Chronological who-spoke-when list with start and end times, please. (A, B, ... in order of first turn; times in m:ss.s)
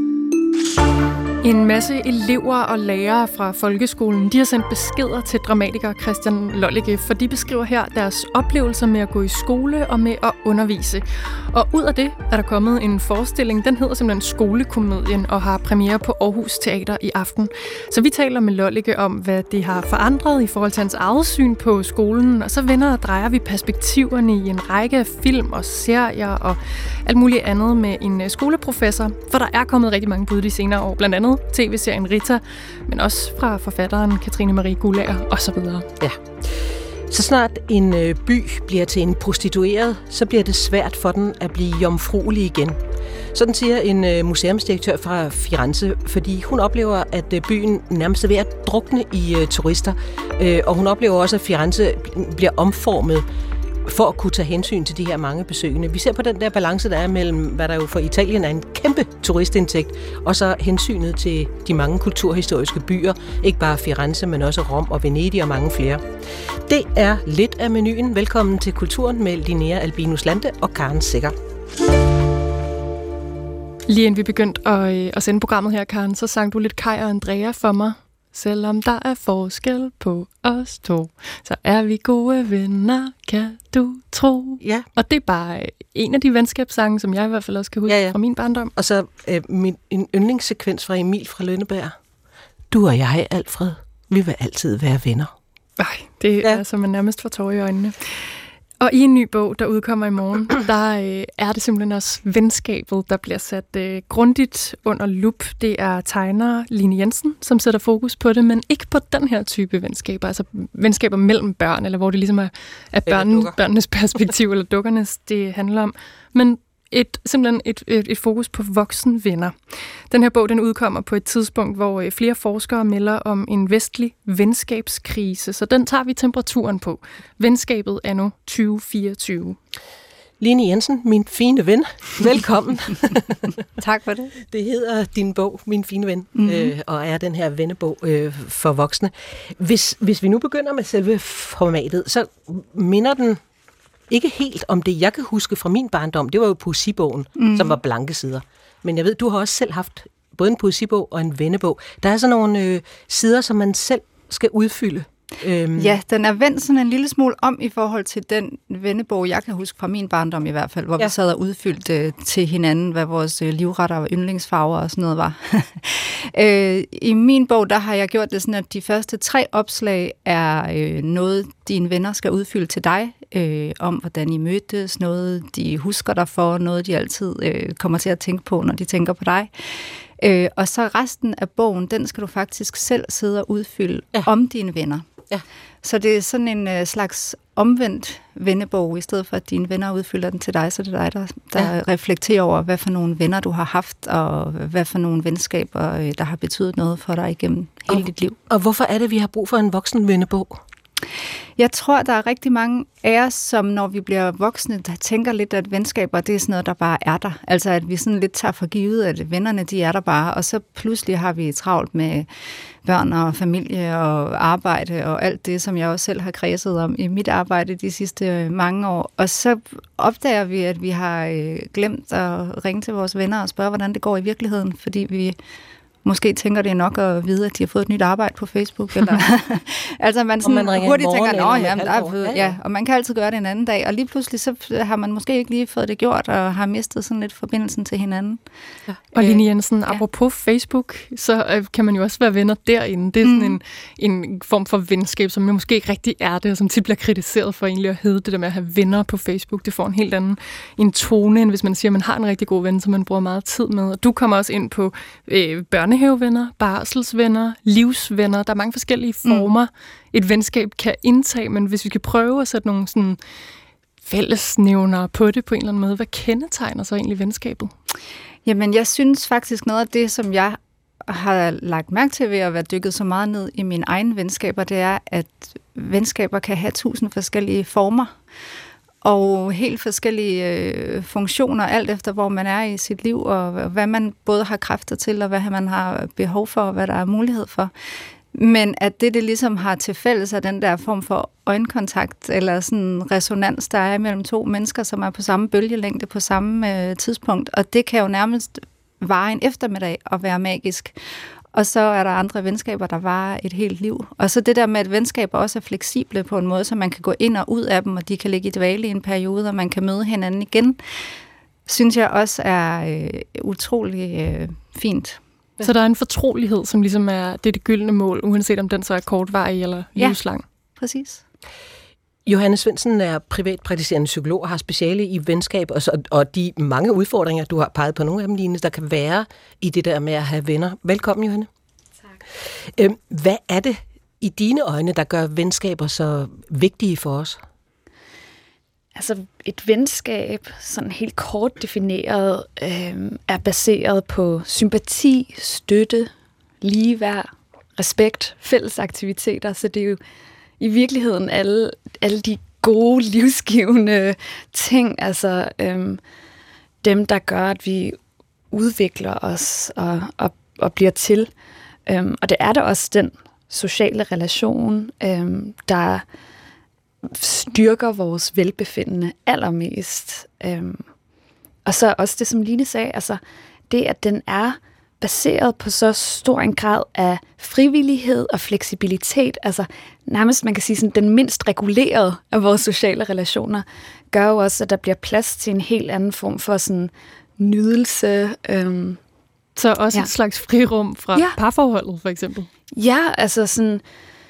0:01.4-0:35.9 A
0:36.0-0:42.8 B
0:43.3-0:53.2 B
0:53.9-1:06.1 B
1:06.7-1:11.4 B
1:13.9-1:28.7 A
1:27.9-1:28.2 B
1:28.8-1:32.0 B
1:32.7-1:35.3 B
1:35.8-1:38.0 A
1:38.8-1:59.6 A
1:53.1-1:53.5 B
2:00.1-2:09.6 A
2:10.4-2:13.5 B
2:13.8-2:14.3 C
2:14.5-2:23.4 B
2:16.4-2:16.7 C
2:24.1-2:36.0 B
2:27.4-2:27.8 C
2:35.8-3:05.1 C
3:05.8-3:18.4 C
3:17.9-3:20.6 B
3:21.6-3:32.3 C
3:32.8-3:45.4 C
3:46.0-3:58.4 C
3:50.4-3:52.6 B
3:59.1-4:23.2 A
3:59.2-4:00.0 C
4:03.2-4:03.6 C
4:24.0-4:27.7 A
4:28.4-4:38.1 C
4:39.0-4:47.7 C
4:48.3-5:01.0 C
5:01.5-5:10.8 C
5:11.7-5:15.2 C
5:15.6-5:20.4 A
5:20.8-5:21.2 C
5:22.3-5:31.5 B
5:32.8-5:37.4 B
5:39.0-5:46.1 D
5:46.6-5:50.0 D
5:50.6-5:56.0 D
5:56.8-5:58.0 D
5:58.5-6:01.3 D
6:01.9-6:06.0 D
6:07.1-6:10.8 D
6:11.7-6:29.0 D
6:29.6-6:32.5 A
6:32.7-6:33.8 D